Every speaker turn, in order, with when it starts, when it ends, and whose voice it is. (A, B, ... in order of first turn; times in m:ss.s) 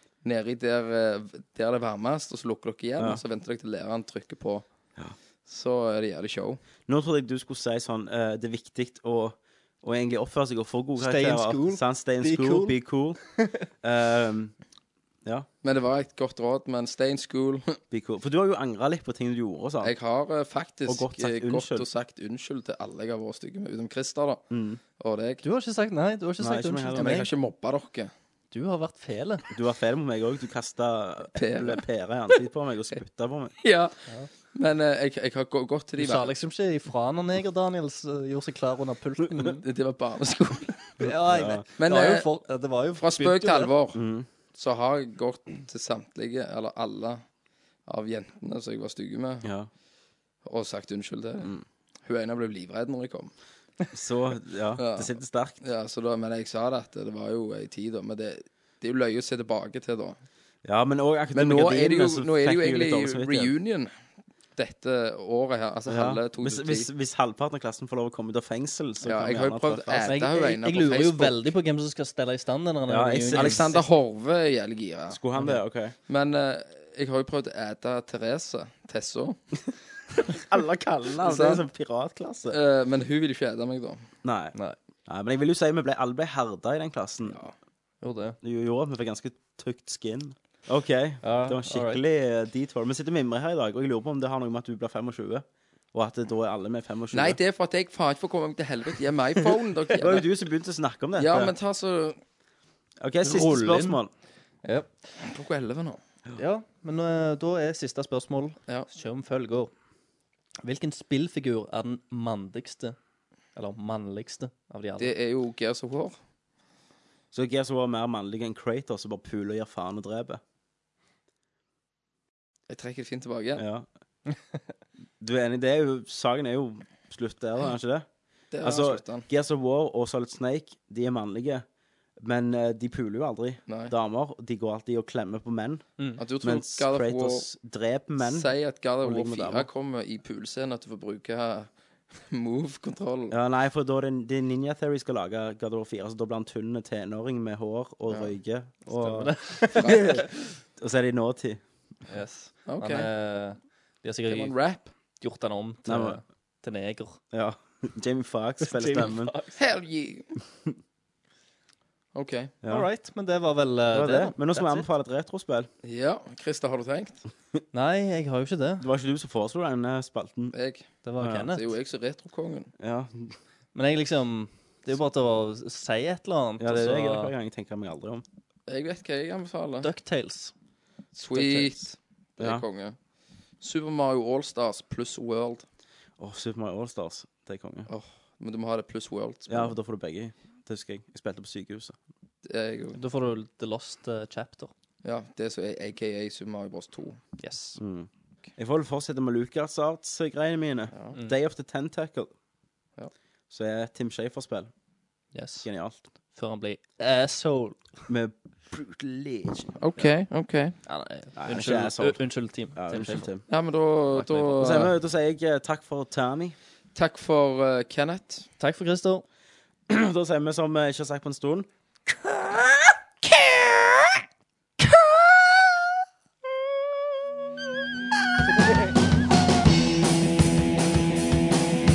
0:00.2-0:04.6 A
0:05.5-0:06.6 A
0:06.9-0:13.2 B
0:11.0-0:12.8 C
0:13.4-0:13.6 C
0:13.8-0:14.5 B
0:15.6-0:17.8 A
0:17.9-0:19.9 B
0:19.8-0:24.4 A
0:20.9-0:21.9 B
0:24.5-0:24.8 B
0:25.0-0:25.4 A
0:25.4-0:27.3 C
0:26.4-0:27.2 B
0:27.0-0:28.1 A
0:28.5-0:29.4 C
0:29.5-0:33.6 B
0:31.4-0:31.8 A
0:33.6-0:34.0 A
0:34.5-0:36.3 A
0:36.0-0:39.6 C
0:39.6-0:40.9 A
0:41.0-0:43.7 C
0:41.0-0:41.6 B
0:41.8-0:42.3 A
0:43.0-0:44.0 A
0:43.9-0:44.3 B
0:44.5-0:47.2 A
0:47.9-0:49.5 A
0:49.4-0:49.7 B
0:50.4-0:51.5 A
0:52.1-0:53.3 A
0:53.9-0:55.6 B
0:54.8-0:55.1 A
0:55.6-1:00.2 A
1:00.6-1:03.5 B
1:01.3-1:03.9 A
1:04.6-1:06.9 A
1:05.9-1:10.2 B
1:09.0-1:11.4 A
1:10.0-1:13.7 C
1:12.9-1:13.8 B
1:13.4-1:15.2 A
1:15.1-1:16.0 B
1:16.1-1:19.4 A
1:20.2-1:22.6 B
1:21.2-1:21.6 A
1:22.5-1:24.1 A
1:24.2-1:24.6 B
1:25.1-1:27.4 B
1:27.3-1:27.5 A
1:28.0-1:28.4 C
1:28.4-1:37.4 B
1:31.2-1:32.0 C
1:37.1-1:40.3 A
1:40.0-1:41.6 B
1:41.2-1:42.2 A
1:43.0-1:44.1 B
1:43.2-1:44.0 C
1:44.6-1:44.9 C
1:45.2-1:46.0 A
1:46.4-1:49.7 C
1:50.6-1:53.0 C
1:53.6-1:55.1 C
1:55.0-1:56.2 A
1:57.3-2:00.4 B
2:02.7-2:03.6 A
2:03.6-2:03.9 B
2:05.2-2:08.1 B
2:08.5-2:09.3 A
2:08.6-2:11.6 B
2:12.2-2:15.9 B
2:13.7-2:13.9 A
2:16.2-2:17.5 A
2:16.4-2:19.7 B
2:18.2-2:23.4 A
2:23.3-2:31.6 B
2:28.1-2:28.4 A
2:28.9-2:30.2 C
2:29.8-2:30.1 A
2:32.1-2:34.6 C
2:32.7-2:33.1 A
2:34.3-2:34.9 A
2:35.2-2:37.2 C
2:35.9-2:36.2 B
2:37.3-2:39.3 B
2:38.6-2:39.6 C
2:39.6-2:40.3 A
2:42.1-2:42.5 A
2:42.6-2:42.9 B
2:42.7-2:44.9 C
2:43.9-2:45.7 B
2:45.8-2:47.2 A
2:47.7-2:48.8 C
2:48.8-2:50.5 B
2:50.5-2:50.9 A
2:51.0-2:51.7 C
2:51.2-2:51.5 B
2:51.4-2:52.7 A
2:52.8-2:53.4 B
2:53.7-2:57.3 C
2:56.6-2:58.2 B
2:58.7-2:59.9 A
2:59.8-3:00.5 C
3:01.2-3:03.0 A
3:01.2-3:01.7 C
3:02.4-3:02.6 B
3:03.6-3:05.6 A
3:06.2-3:07.9 B
3:07.9-3:09.8 A
3:09.5-3:12.0 B
3:12.4-3:13.0 A
3:13.0-3:14.7 C
3:15.0-3:17.2 A
3:17.4-3:17.8 C
3:17.8-3:22.3 B
3:23.5-3:24.7 B
3:25.3-3:25.7 C
3:25.6-3:26.0 B
3:26.3-3:27.8 C
3:28.1-3:29.7 B
3:29.8-3:30.8 A
3:30.8-3:33.3 C
3:31.4-3:33.4 B
3:33.5-3:34.9 A
3:34.2-3:34.9 C
3:34.6-3:36.6 B
3:37.0-3:38.5 A
3:38.6-3:39.2 C
3:39.9-3:41.7 B